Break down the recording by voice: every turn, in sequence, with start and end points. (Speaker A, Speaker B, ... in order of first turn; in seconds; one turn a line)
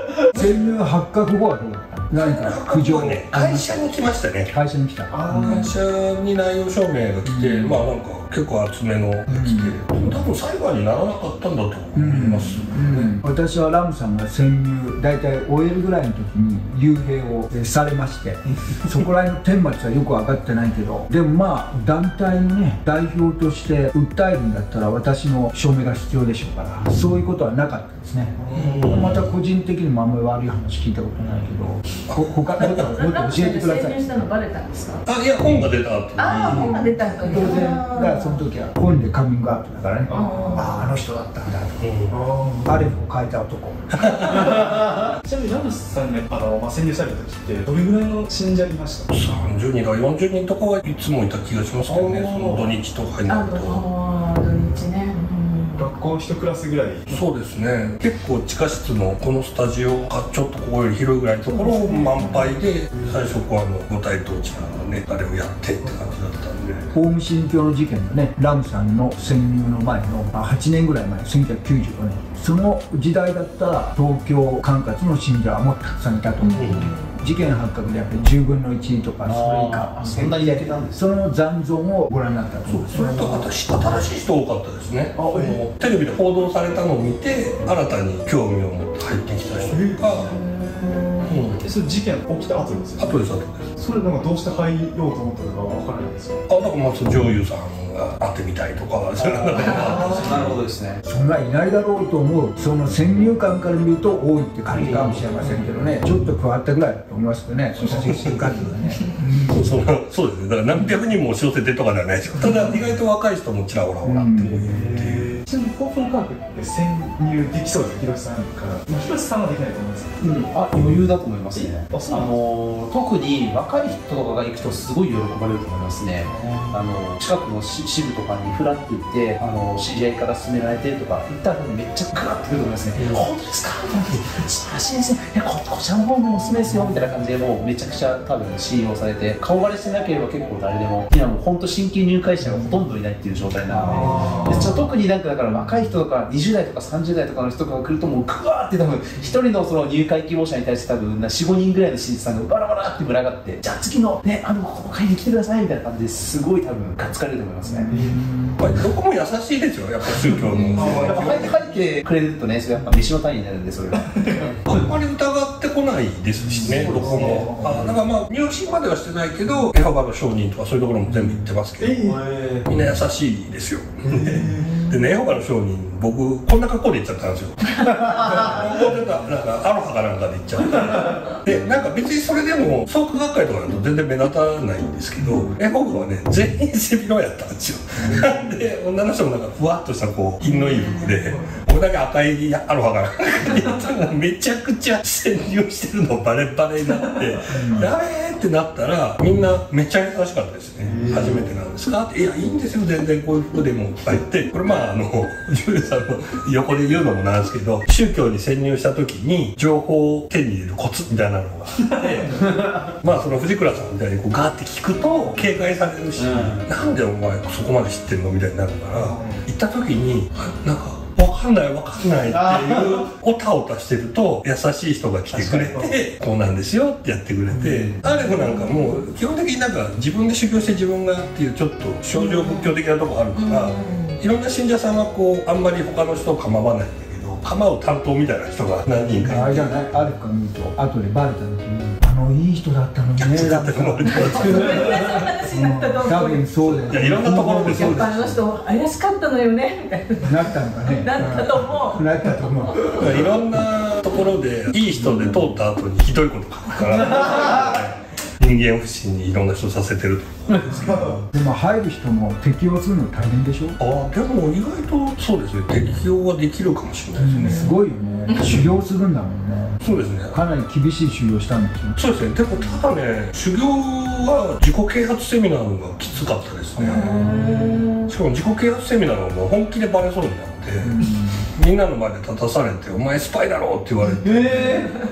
Speaker A: 0.3-3.7
Speaker B: 2.1-4.5
Speaker A: 4.5-5.7
Speaker C: 5.1-5.8
Speaker B: 5.3-12.7
Speaker A: 7.2-7.8
Speaker A: 9.3-9.8
Speaker A: 11.9-34.3
Speaker C: 12.5-13.1
Speaker C: 28.4-29.1
Speaker B: 28.5-29.2
Speaker B: 32.1-32.9
Speaker D: 32.9-35.0
Speaker B: 35.1-37.5
Speaker D: 36.2-38.4
Speaker A: 37.2-41.9
Speaker C: 40.1-41.0
Speaker D: 40.1-40.8
Speaker B: 41.8-42.2
Speaker C: 42.1-42.9
Speaker A: 42.6-44.1
Speaker B: 43.9-44.7
Speaker C: 44.1-49.1
Speaker B: 49.1-53.9
Speaker C: 51.9-52.7
Speaker D: 53.2-55.9
Speaker C: 55.8-57.2
Speaker B: 57.1-66.9
Speaker C: 61.5-63.3
Speaker C: 65.8-66.1
Speaker A: 66.9-83.3
Speaker B: 76.5-76.9
Speaker D: 76.5-77.1
Speaker E: 79.2-81.0
Speaker B: 82.7-90.3
Speaker C: 82.9-83.4
Speaker C: 85.1-85.6
Speaker C: 89.6-93.2
Speaker B: 91.2-91.6
Speaker B: 93.0-93.7
Speaker C: 93.8-96.4
Speaker B: 96.5-100.6
Speaker E: 99.2-101.0
Speaker C: 99.5-100.6
Speaker A: 101.0-109.7
Speaker E: 104.7-105.2
Speaker B: 107.8-108.7
Speaker B: 109.5-115.4
Speaker C: 112.4-112.8
Speaker A: 114.0-114.5
Speaker C: 114.4-120.3
Speaker E: 120.2-157.9
Speaker C: 121.5-122.3
Speaker C: 126.2-126.9
Speaker A: 143.7-144.5
Speaker C: 143.8-144.8
Speaker A: 157.6-158.6
Speaker C: 157.9-158.6
Speaker B: 158.6-161.6
Speaker C: 160.1-161.4
Speaker E: 160.8-164.7
Speaker C: 163.9-164.9
Speaker B: 164.7-239.7
Speaker C: 166.4-168.0
Speaker C: 171.1-173.0
Speaker C: 174.0-174.8
Speaker D: 174.6-174.9
Speaker A: 188.0-188.4
Speaker D: 190.7-191.4
Speaker A: 197.5-197.9
Speaker C: 200.8-201.5
Speaker C: 211.9-212.5
Speaker E: 216.2-216.7
Speaker C: 218.9-219.4
Speaker E: 222.3-223.0
Speaker E: 225.3-225.8
Speaker D: 228.3-228.9
Speaker D: 232.2-232.7
Speaker D: 233.3-234.2
Speaker A: 239.2-248.3
Speaker B: 243.2-245.2
Speaker D: 244.0-246.4
Speaker B: 246.8-248.3
Speaker D: 247.6-252.0
Speaker A: 250.2-253.2
Speaker B: 252.9-261.2
Speaker C: 260.7-261.2
Speaker A: 261.2-263.8
Speaker B: 263.8-267.7
Speaker A: 267.1-269.8
Speaker D: 267.4-267.7
Speaker B: 269.8-270.4
Speaker A: 270.3-271.9
Speaker B: 271.9-277.4
Speaker A: 276.8-277.6
Speaker D: 276.9-278.1
Speaker B: 278.1-284.9
Speaker A: 280.8-281.5